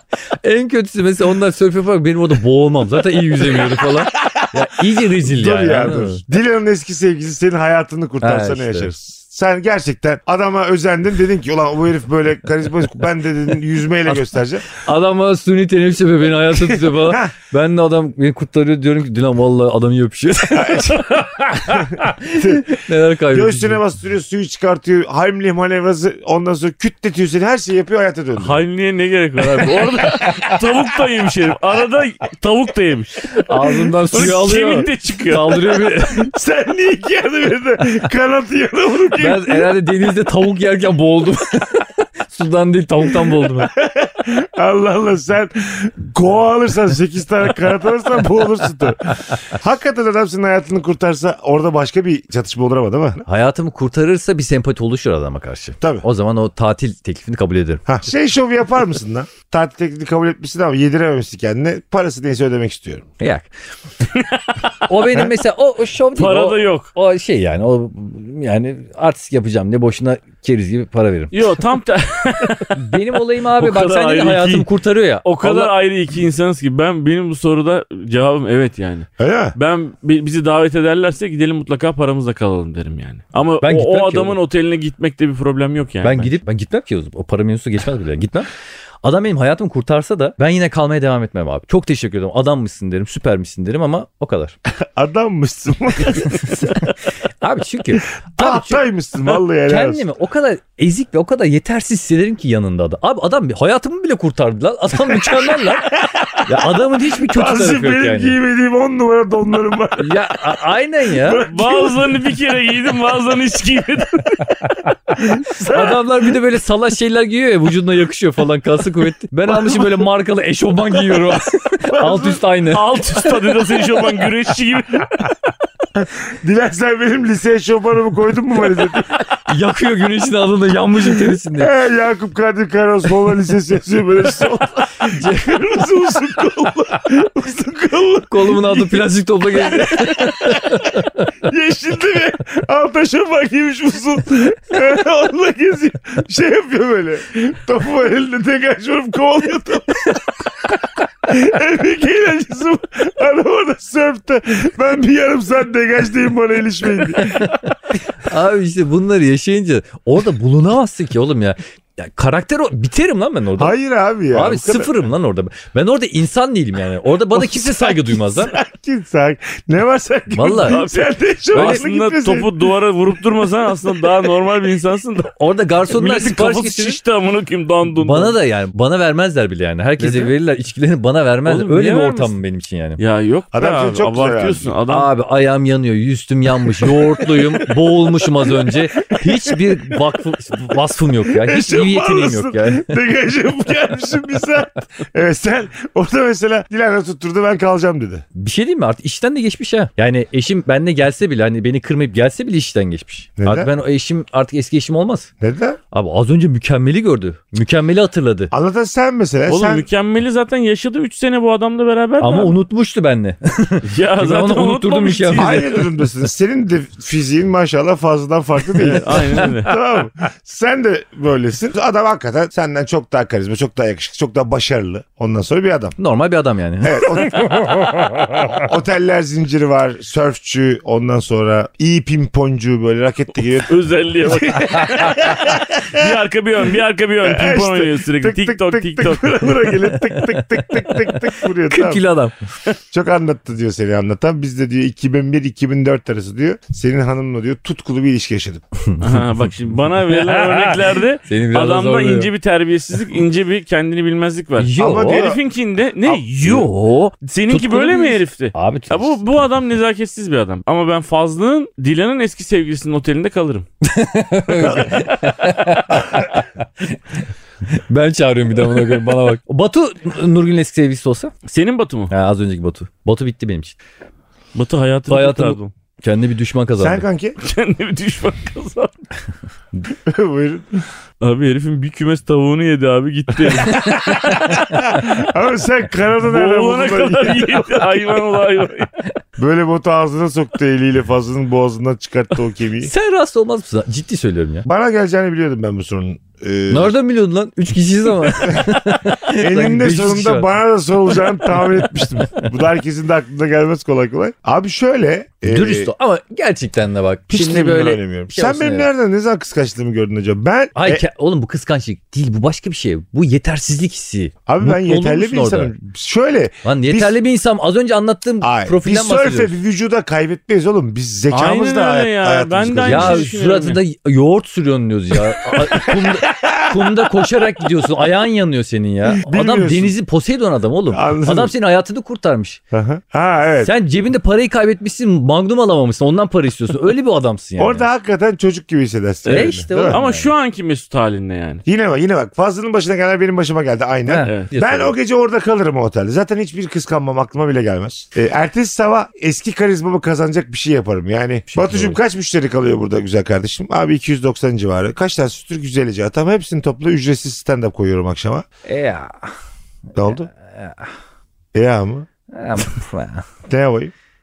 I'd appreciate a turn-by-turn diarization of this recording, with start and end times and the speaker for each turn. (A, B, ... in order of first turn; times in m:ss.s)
0:00.3-0:06.2 A
0:03.5-0:04.6 B
0:05.2-0:14.7 B
0:08.2-0:08.9 A
0:14.1-0:23.8 A
0:16.5-0:17.3 B
0:20.5-0:28.6 B
0:28.4-0:33.5 C
0:29.8-0:30.6 B
0:33.3-0:36.3 A
0:34.1-0:35.6 C
0:35.8-0:39.7 B
0:39.2-0:43.7 A
0:43.2-0:53.2 B
0:53.2-0:57.8 A
0:57.8-1:03.1 B
1:03.2-1:03.5 A
1:04.1-1:04.6 C
1:04.8-1:11.5 A
1:06.1-1:06.9 C
1:11.3-1:14.7 C
1:12.7-1:15.7 A
1:15.2-1:26.3 C
1:19.2-1:19.6 B
1:23.6-1:24.4 A
1:26.0-1:28.5 A
1:29.0-1:34.6 A
1:34.8-1:36.7 B
1:36.2-1:38.8 A
1:38.3-1:40.0 B
1:39.6-1:48.4 A
1:45.1-1:46.7 B
1:47.2-1:52.1 B
1:50.0-1:51.4 A
1:51.4-1:54.6 C
1:55.2-1:56.0 B
1:55.6-2:03.0 A
1:59.5-2:00.0 B
2:01.9-2:02.4 B
2:02.7-2:05.3 C
2:03.4-2:03.8 B
2:05.9-2:09.1 B
2:09.4-2:11.7 A
2:11.1-2:19.0 B
2:15.1-2:15.6 A
2:18.3-2:21.3 A
2:19.6-2:20.9 B
2:21.4-2:37.7 B
2:37.2-2:43.7 A
2:43.6-2:44.9 B
2:44.3-2:48.6 A
2:47.3-2:52.7 B
2:50.3-2:50.8 A
2:50.6-2:55.3 C
2:51.5-2:51.8 A
2:53.7-2:54.1 B
2:55.3-2:57.0 A
2:55.9-2:58.3 C
2:57.9-3:03.0 A
3:01.4-3:02.3 C
3:03.0-3:05.1 C
3:03.5-3:04.8 B
3:04.9-3:12.9 A
3:06.9-3:07.4 B
3:08.6-3:10.0 B
3:11.3-3:18.2 B
3:18.3-3:25.3 A
3:23.4-3:23.7 B
3:25.4-3:25.8 B
3:25.9-3:28.5 A
3:28.5-3:29.9 B
3:29.5-3:32.5 C
3:32.2-3:35.6 A
3:33.8-3:35.9 C
3:35.4-3:46.0 B
3:38.8-3:39.5 A
3:38.8-3:39.7 C
3:46.0-3:48.6 A
3:46.8-3:47.9 B
3:48.4-3:56.1 B
3:53.7-3:59.6 C
3:57.2-4:02.0 B
4:00.1-4:02.3 A
4:02.9-4:08.6 B
4:08.9-4:09.4 A
4:09.0-4:23.6 C
4:10.1-4:12.3 A
4:14.6-4:15.2 A
4:14.8-4:15.4 B
4:16.4-4:19.2 A
4:23.8-4:31.3 A
4:24.7-4:25.2 C
4:31.4-4:32.1 C
4:32.1-4:33.8 A
4:34.5-4:35.7 C
4:35.1-4:37.0 A
4:36.8-4:37.4 B
4:37.4-4:39.0 C
4:39.9-4:40.8 B
4:41.2-4:44.6 C
4:43.6-4:44.7 A
4:43.6-4:47.9 B
4:46.3-4:48.9 C
4:49.4-4:52.9 B
4:52.8-4:54.7 A
4:54.7-4:56.9 B
4:56.7-5:00.5 A
4:58.4-5:05.9 B
5:01.4-5:02.4 A
5:05.4-5:08.9 A
5:07.3-5:11.0 B
5:10.8-5:15.7 A
5:14.5-5:17.2 B
5:16.6-5:19.5 A
5:18.4-5:23.3 B
5:21.3-5:23.8 C
5:22.8-5:32.6 A
5:25.3-5:27.1 B
5:29.1-5:30.0 B
5:30.9-5:31.5 B
5:32.7-5:33.7 B
5:33.6-5:37.9 A
5:37.6-5:40.0 B
5:39.2-5:41.6 C
5:39.3-5:40.3 A
5:41.6-5:58.4 B
5:44.1-5:44.9 A
5:44.2-5:44.5 C
5:51.5-5:52.0 A
5:58.6-5:59.3 A
5:59.9-6:00.3 B
6:00.0-6:00.9 A
6:01.5-6:02.1 B
6:02.3-6:03.2 A
6:03.5-6:03.9 B